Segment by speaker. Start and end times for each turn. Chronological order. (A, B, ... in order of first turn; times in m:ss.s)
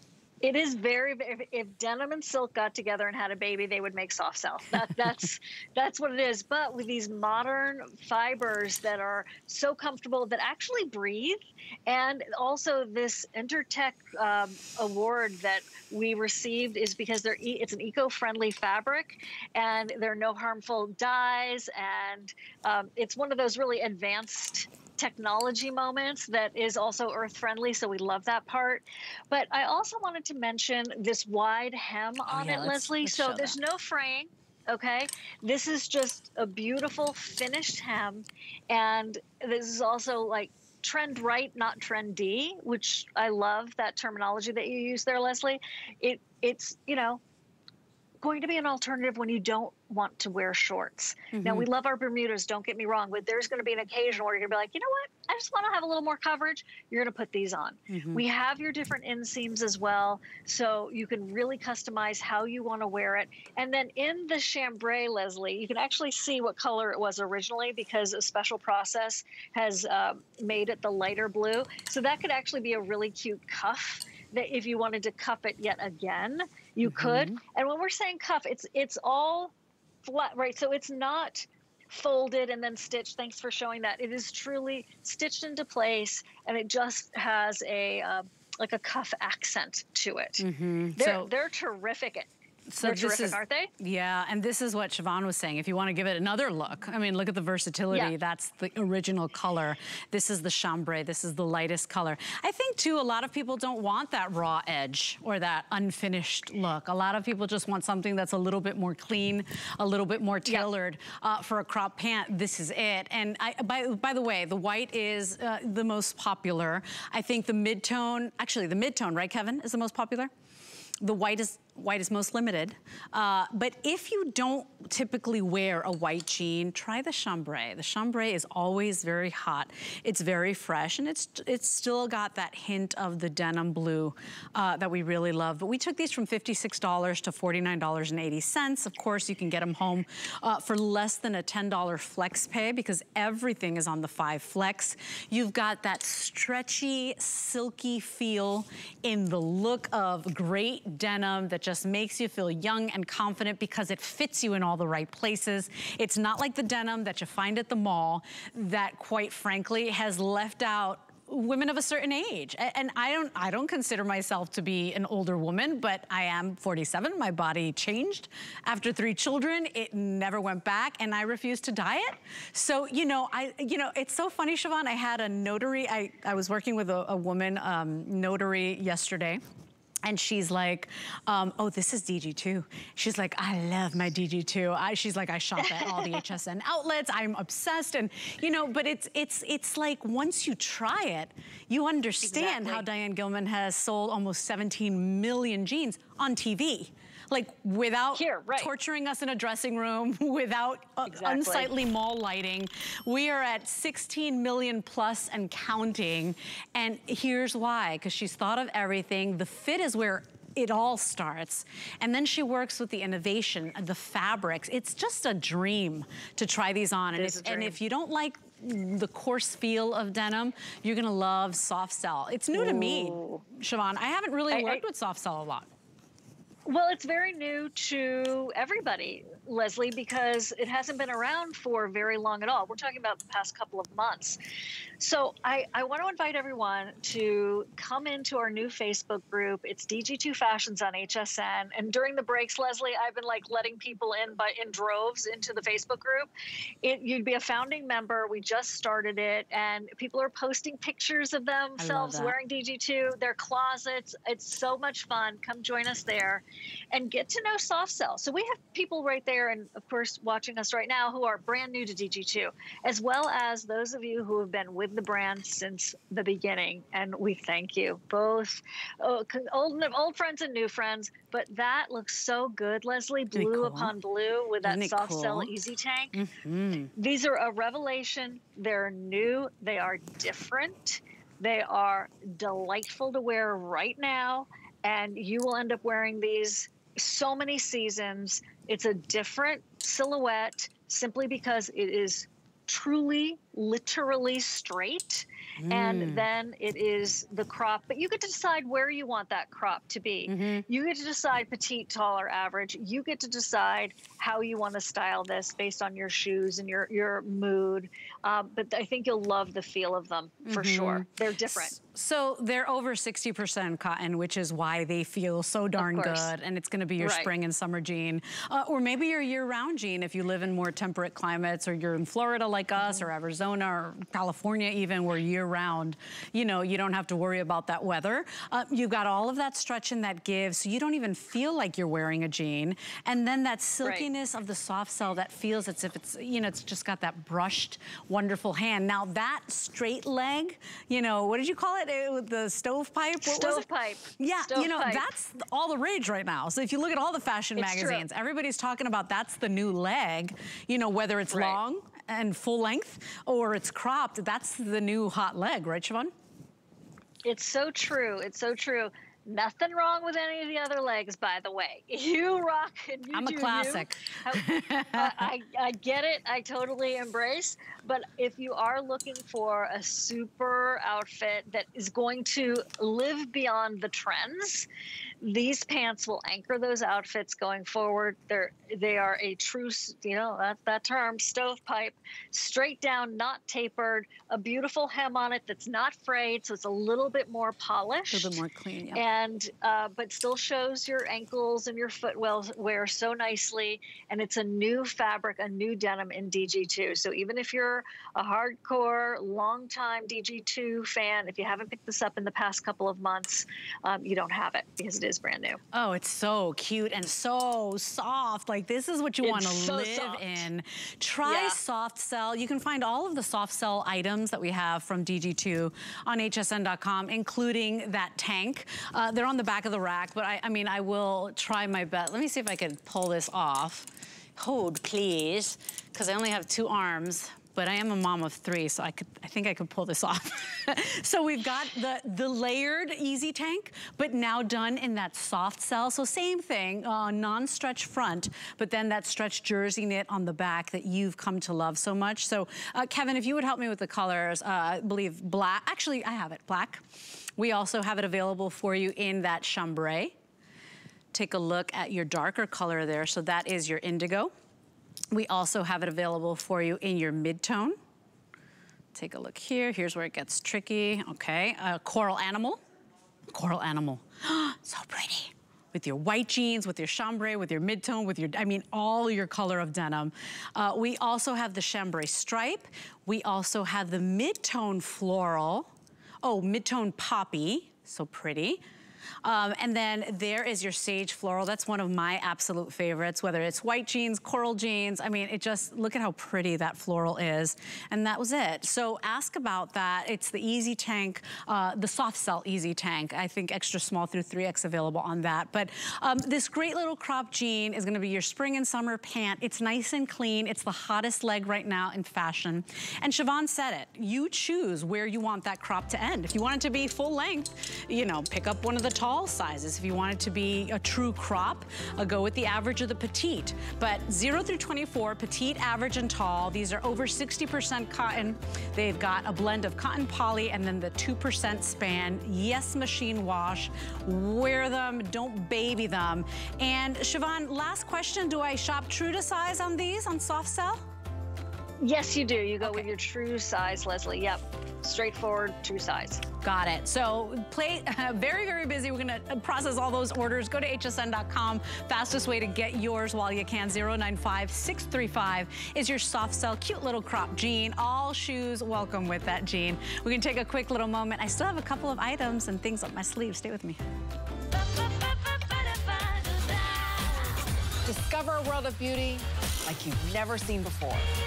0:00.4-0:47.2 A
0:32.2-0:33.6 B
0:48.2-1:19.5 A
0:51.3-0:51.7 B
0:57.9-0:58.2 B
1:16.8-1:17.4 B
1:20.0-1:30.4 A
1:30.4-1:31.3 B
1:31.0-1:32.3 A
1:32.7-2:00.3 B
1:32.8-1:33.7 A
2:01.0-2:59.4 B
3:00.0-3:45.7 B
3:05.6-3:06.2 A
3:12.2-3:12.8 A
3:18.1-3:18.7 A
3:21.0-3:21.7 A
3:37.1-3:37.7 A
3:42.5-3:43.4 A
3:44.5-3:44.8 A
3:46.6-3:54.4 A
3:55.0-4:06.3 A
4:06.8-4:36.2 A
4:11.8-4:12.4 B
4:33.3-4:33.9 B
4:34.6-4:35.5 B
4:36.1-4:36.9 B
4:37.0-5:11.8 A
4:55.6-4:56.2 B
5:00.3-5:00.6 B
5:10.4-5:43.6 B
5:15.8-5:16.3 A
5:17.0-5:17.3 A
5:33.8-5:34.1 A
5:43.2-5:45.1 A
5:44.2-5:56.1 B
5:47.6-5:48.0 A
5:51.3-5:51.6 A
5:57.2-6:14.7 A
6:03.1-6:05.2 B
6:15.2-6:28.4 A
6:28.1-6:29.0 B
6:28.9-6:45.6 A
6:45.7-7:26.8 B
6:49.2-6:50.4 A
6:51.2-6:51.6 A
7:27.4-7:30.1 B
7:31.1-7:34.3 B
7:35.1-7:37.8 B
7:38.9-7:42.6 B
7:43.3-7:55.7 B
7:56.2-7:58.6 B
7:59.2-8:50.8 B
8:51.8-8:56.2 A
8:56.4-9:13.8 B
9:17.8-9:21.1 C